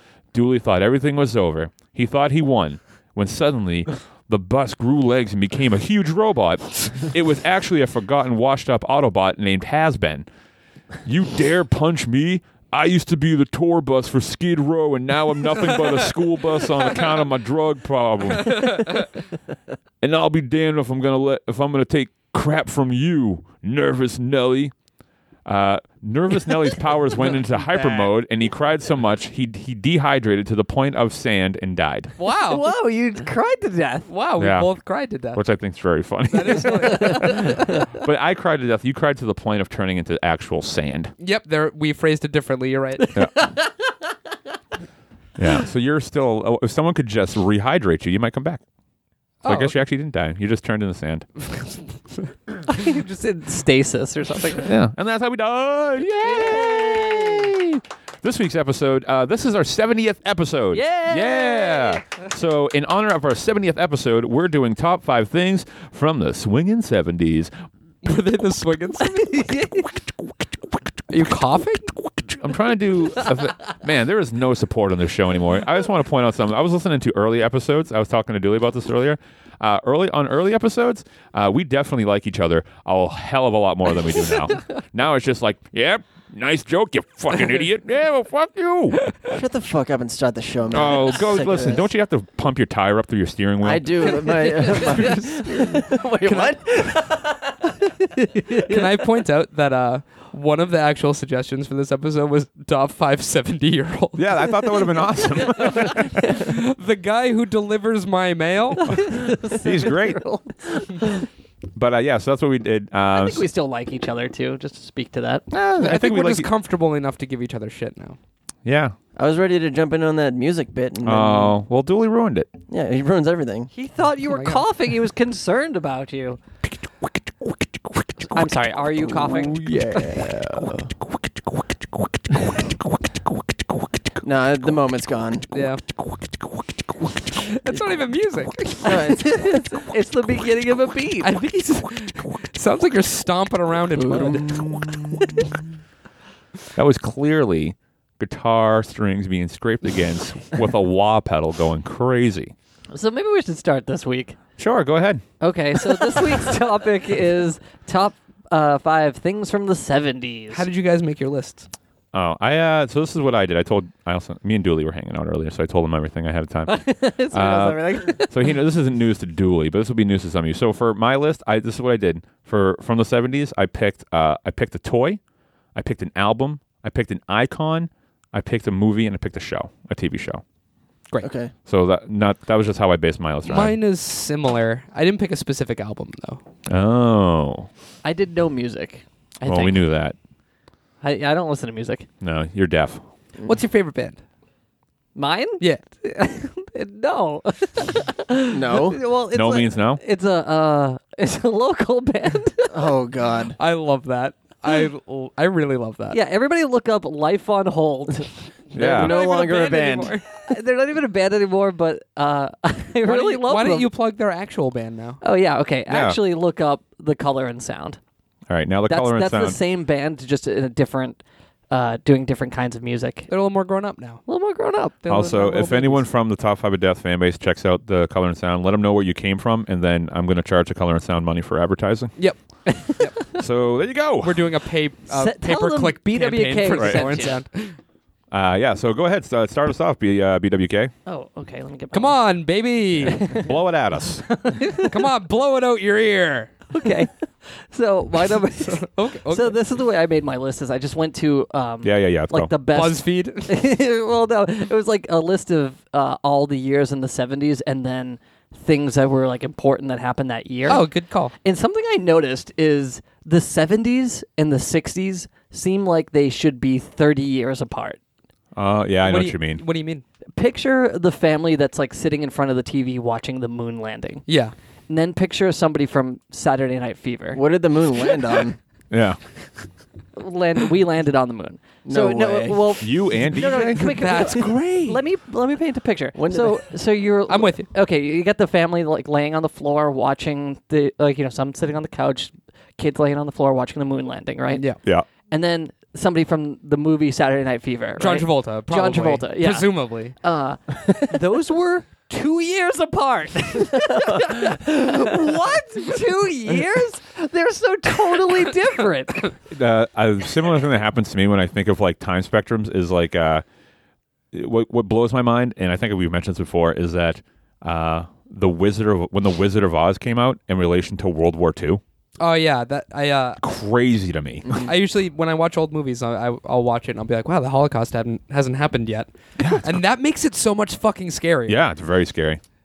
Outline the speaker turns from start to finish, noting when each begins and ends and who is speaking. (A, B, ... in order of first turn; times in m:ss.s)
0:00.3-0:10.2 A
0:11.0-0:19.1 A
0:18.4-0:19.0 B
0:20.0-0:24.7 A
0:25.4-0:32.1 A
0:27.2-0:28.1 B
0:32.2-0:32.7 B
0:32.5-0:34.1 C
0:34.1-0:35.4 B
0:34.4-0:34.7 A
0:35.3-0:41.1 A
0:36.3-0:37.6 B
0:36.8-0:37.6 C
0:41.2-0:43.0 B
0:43.0-0:43.8 C
0:43.1-0:43.4 A
0:45.4-0:48.6 A
0:49.4-0:49.8 B
0:49.4-0:51.3 A
0:52.7-0:54.7 C
0:54.6-1:07.5 A
0:56.2-0:57.5 C
1:00.7-1:02.0 C
1:08.0-1:09.6 B
1:09.1-1:09.9 C
1:11.1-1:11.9 B
1:12.3-1:29.1 A
1:29.2-1:31.8 D
1:30.7-1:34.2 A
1:33.6-1:37.4 D
1:34.8-1:35.2 B
1:35.5-1:35.8 C
1:36.2-1:36.5 B
1:38.4-1:38.9 C
1:38.5-1:49.1 B
1:44.2-1:46.2 A
1:45.5-1:46.2 C
1:48.8-1:51.3 C
1:49.0-1:50.2 A
1:51.7-1:53.4 A
1:53.1-1:55.4 C
1:55.5-1:56.5 A
1:55.8-1:58.2 B
1:58.6-1:58.9 A
1:59.2-2:01.6 D
2:01.0-2:02.5 A
2:02.7-2:03.7 D
2:03.7-2:06.4 C
2:04.3-2:04.6 B
2:07.4-2:08.4 A
2:08.3-2:10.1 C
2:09.1-2:14.1 A
2:09.6-2:10.7 D
2:14.2-2:15.5 D
2:15.5-2:15.8 B
2:16.0-2:16.6 A
2:17.3-2:19.1 B
2:18.8-2:19.6 D
2:18.8-2:21.3 C
2:21.2-2:24.6 B
2:24.0-2:24.6 D
2:24.1-2:25.6 A
2:26.7-2:32.5 A
2:32.9-2:34.4 C
2:34.6-2:35.2 A
2:35.4-2:40.7 C
2:40.5-2:41.7 B
2:42.1-2:55.2 A
2:46.7-2:48.5 C
2:55.7-3:00.4 A
3:01.2-3:01.5 D
3:01.6-3:03.8 A
3:03.4-3:06.4 B
3:06.7-3:07.7 A
3:08.0-3:09.8 C
3:09.4-3:10.2 A
3:11.0-3:12.1 C
3:12.2-3:13.0 A
3:13.4-3:14.2 B
3:15.2-3:22.8 C
3:18.5-3:19.0 D
3:19.3-3:20.0 A
3:22.7-3:23.6 D
3:23.6-3:26.2 B
3:26.1-3:28.3 C
3:28.7-3:29.2 A
3:28.7-3:30.1 D
3:28.9-3:30.2 B
3:30.3-3:33.9 C
3:33.0-3:35.2 B
3:35.2-3:38.0 C
3:35.9-3:36.2 A
3:38.5-3:39.6 A
3:38.9-3:43.3 C
3:43.3-3:44.2 B
3:44.2-3:45.9 C
3:45.1-3:52.1 A
3:45.3-3:46.0 B
3:52.6-3:53.4 C
3:53.3-3:54.5 A
3:54.2-3:57.8 B
3:55.1-3:57.4 C
3:56.7-3:57.2 A
3:58.3-4:00.9 A
4:01.0-4:02.2 C
4:01.9-4:03.3 B
4:03.0-4:03.5 C
4:03.0-4:04.3 A
4:04.2-4:05.0 C
4:04.7-4:06.7 B
4:06.7-4:20.9 C
4:08.7-4:09.6 B
4:11.8-4:12.5 A
4:12.7-4:13.5 B
4:20.6-4:21.3 B
4:21.4-4:28.0 C
4:28.5-4:29.6 A
4:29.0-4:30.0 B
4:30.4-4:34.2 C
4:34.3-4:34.5 B
4:34.9-4:37.4 C
4:37.3-4:38.6 D
4:38.9-4:39.2 A
4:40.2-4:54.7 C
4:41.8-4:42.8 D
4:42.8-4:44.0 A
4:43.4-4:45.0 B
4:46.1-4:46.6 D
4:47.3-4:47.7 B
4:54.5-4:54.8 B
4:55.3-5:09.3 C
4:58.0-5:00.2 B
5:09.5-5:13.4 A
5:14.3-5:21.8 A
5:22.2-5:23.4 B
5:23.4-5:24.7 A
5:24.5-5:31.6 B
5:29.4-5:29.7 A
5:31.5-5:32.4 A